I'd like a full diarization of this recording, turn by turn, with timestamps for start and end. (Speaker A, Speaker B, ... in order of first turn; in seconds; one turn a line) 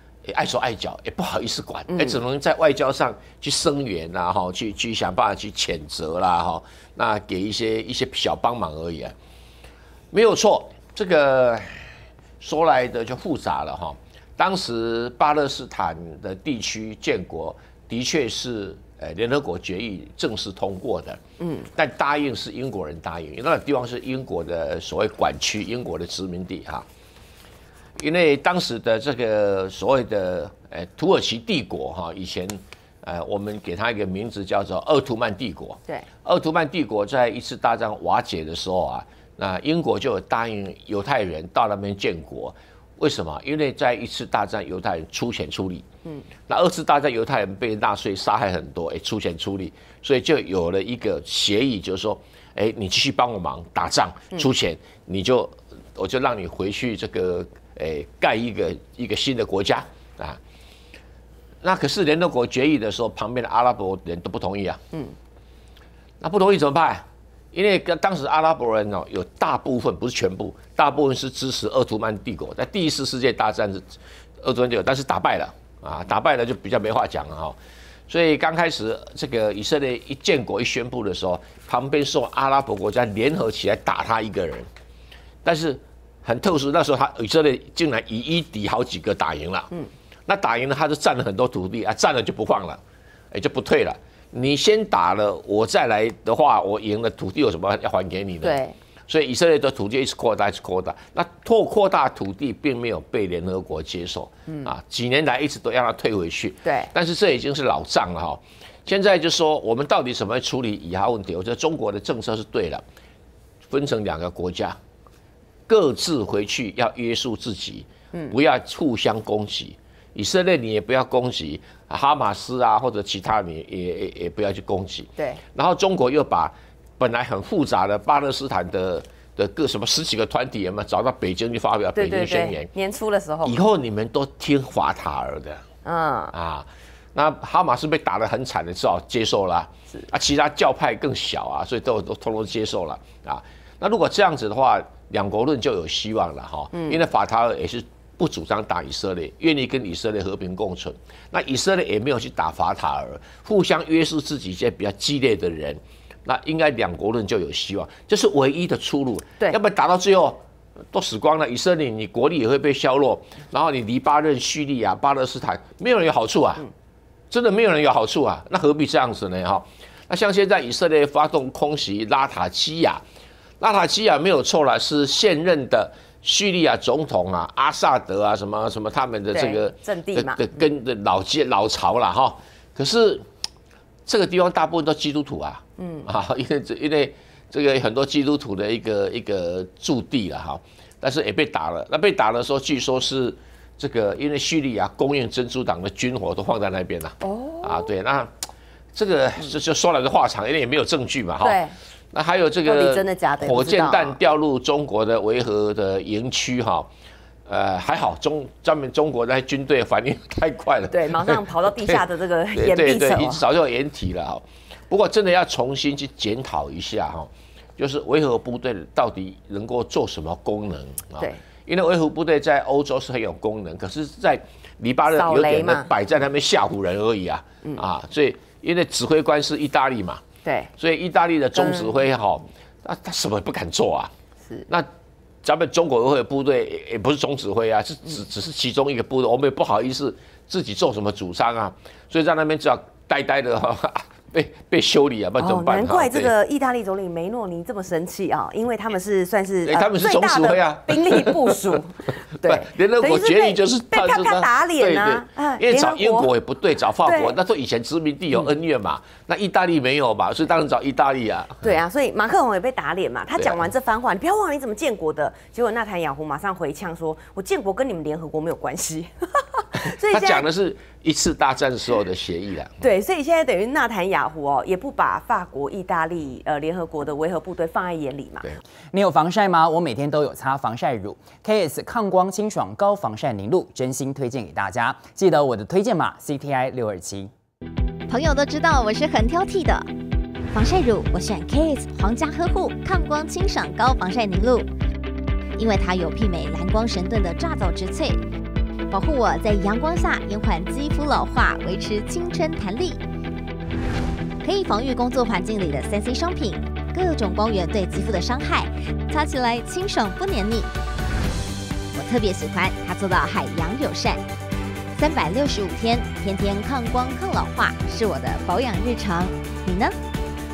Speaker A: 0.3-9.1
Speaker A: 10.1-21.2
Speaker A: 21.8-26.9
Speaker A: 28.0-45.9
Speaker A: 46.5-60.4
Speaker A: 61.6-64.8
Speaker A: 66.2-77.6
Speaker A: 78.1-84.7
Speaker A: 85.4-89.7
Speaker A: 90.3-92.8
Speaker A: 93.3-112.8
Speaker B: 98.4-98.8
Speaker B: 106.6-106.9
Speaker A: 113.7-114.8
Speaker A: 115.7-132.7
Speaker B: 131.9-133.6
Speaker A: 133.4-135.6
Speaker B: 135.8-136.3
Speaker A: 136.3-160.4
Speaker A: 160.9-166.7
Speaker A: 167.3-173.0
Speaker A: 173.6-183.2
Speaker B: 179.3-180.4
Speaker A: 184.1-198.3
Speaker B: 185.8-186.1
Speaker B: 197.2-197.9
Speaker A: 198.9-201.6
Speaker B: 201.4-201.8
Speaker A: 202.1-206.9
Speaker B: 202.7-204.2
Speaker A: 207.5-212.0
Speaker B: 210.9-213.4
Speaker A: 212.5-230.2
Speaker B: 225.1-225.9
Speaker B: 230.4-230.7
Speaker A: 230.8-234.1
Speaker B: 231.6-231.9
Speaker A: 235.4-246.3
Speaker B: 245.4-256.3
Speaker A: 249.7-251.5
Speaker A: 252.4-261.7
Speaker B: 257.0-257.4
Speaker B: 261.6-270.5
Speaker A: 269.9-272.8
Speaker B: 272.8-278.5
Speaker C: 278.9-287.3
Speaker D: 288.1-289.9
Speaker D: 290.5-294.7
Speaker D: 295.6-298.2
Speaker D: 298.9-303.0
Speaker D: 304.4-310.7
Speaker D: 311.9-314.2
Speaker D: 314.9-320.0